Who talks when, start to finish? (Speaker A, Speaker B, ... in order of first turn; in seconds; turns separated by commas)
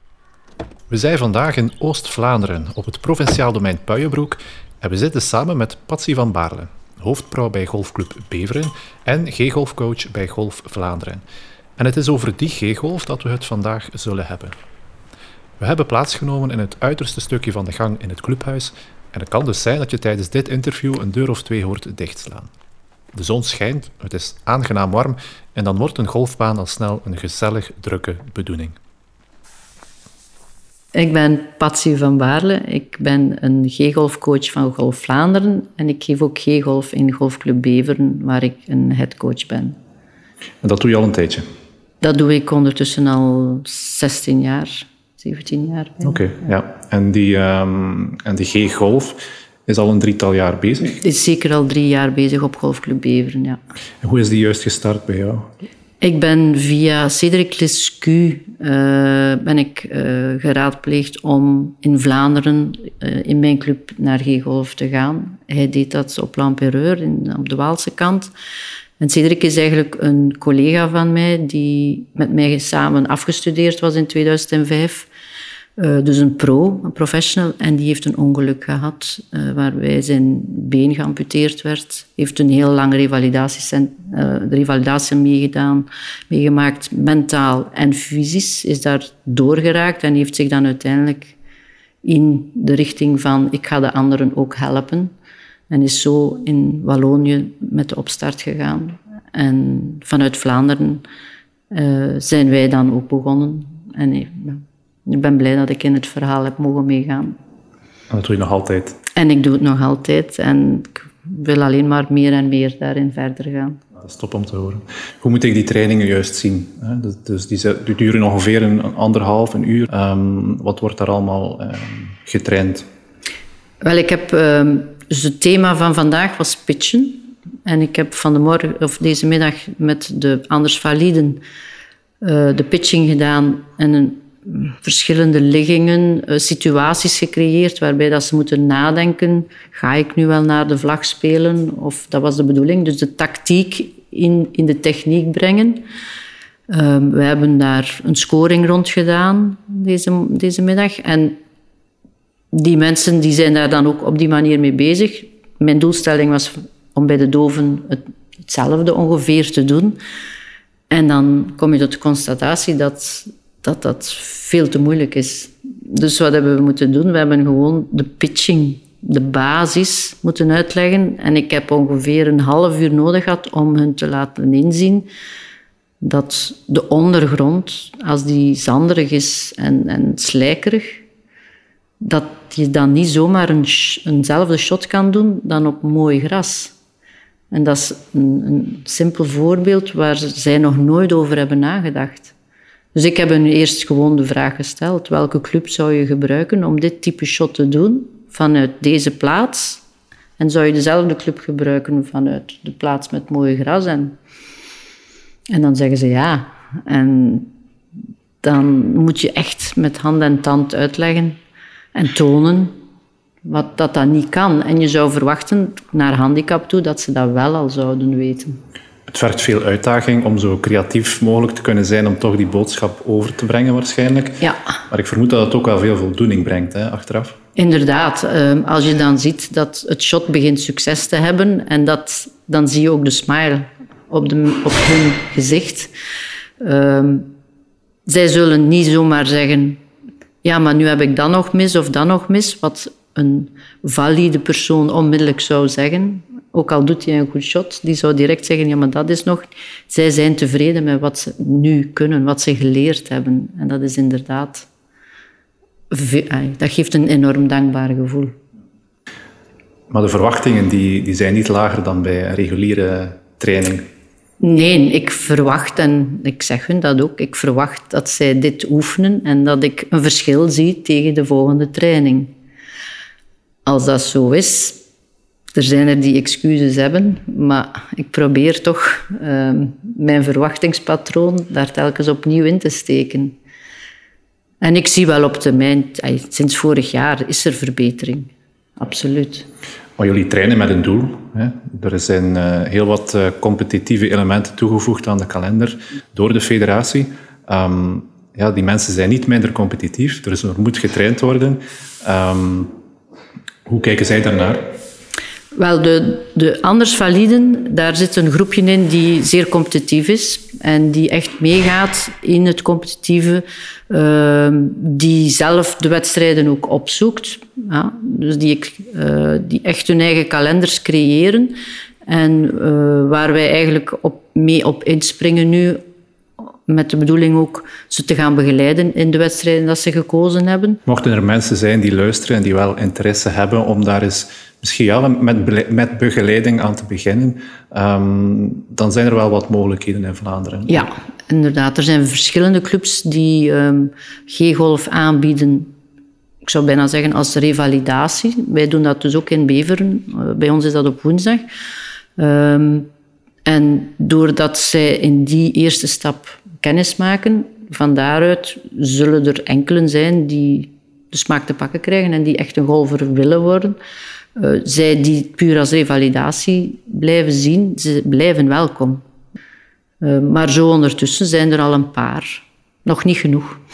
Speaker A: 0.9-11.2, Speaker A: 11.8-14.5, Speaker A: 15.6-22.5, Speaker A: 23.1-28.8, Speaker B: 30.9-39.8, Speaker A: 40.6-41.5, Speaker B: 42.0-46.2, Speaker A: 46.0-51.0, Speaker B: 50.9-53.6, Speaker A: 54.0-55.5, Speaker B: 56.0-68.3, Speaker B: 69.0-75.1, Speaker B: 75.8-91.3, Speaker B: 92.0-95.1, Speaker B: 95.7-101.0, Speaker B: 101.7-107.4, Speaker A: 108.1-109.0, Speaker B: 109.2-113.8, Speaker A: 114.0-122.8, Speaker B: 123.8-131.4, Speaker B: 132.2-145.9, Speaker B: 146.7-151.4, Speaker B: 152.5-160.0, Speaker B: 160.9-175.1, Speaker B: 176.0-181.0, Speaker B: 182.0-186.7, Speaker B: 187.5-192.3, Speaker B: 192.9-199.8, Speaker B: 200.4-204.2, Speaker B: 205.5-207.5, Speaker B: 208.4-211.4, Speaker B: 211.9-212.8, Speaker B: 213.4-218.6, Speaker A: 219.1-227.4, Speaker B: 227.6-235.9, Speaker B: 236.6-237.3, Speaker B: 238.1-239.8, Speaker B: 240.4-254.7, Speaker B: 255.9-258.4, Speaker A: 259.9-263.9, Speaker B: 264.4-272.3, Speaker B: 273.6-274.8, Speaker B: 275.5-283.4, Speaker B: 284.6-289.5, Speaker A: 290.0-302.7, Speaker A: 303.6-304.6, Speaker B: 305.5-325.9, Speaker B: 326.6-330.8, Speaker A: 330.9-340.9, Speaker B: 340.7-345.7, Speaker B: 346.4-351.5, Speaker B: 352.2-352.9, Speaker B: 353.4-363.8, Speaker B: 364.4-369.0, Speaker B: 370.0-373.6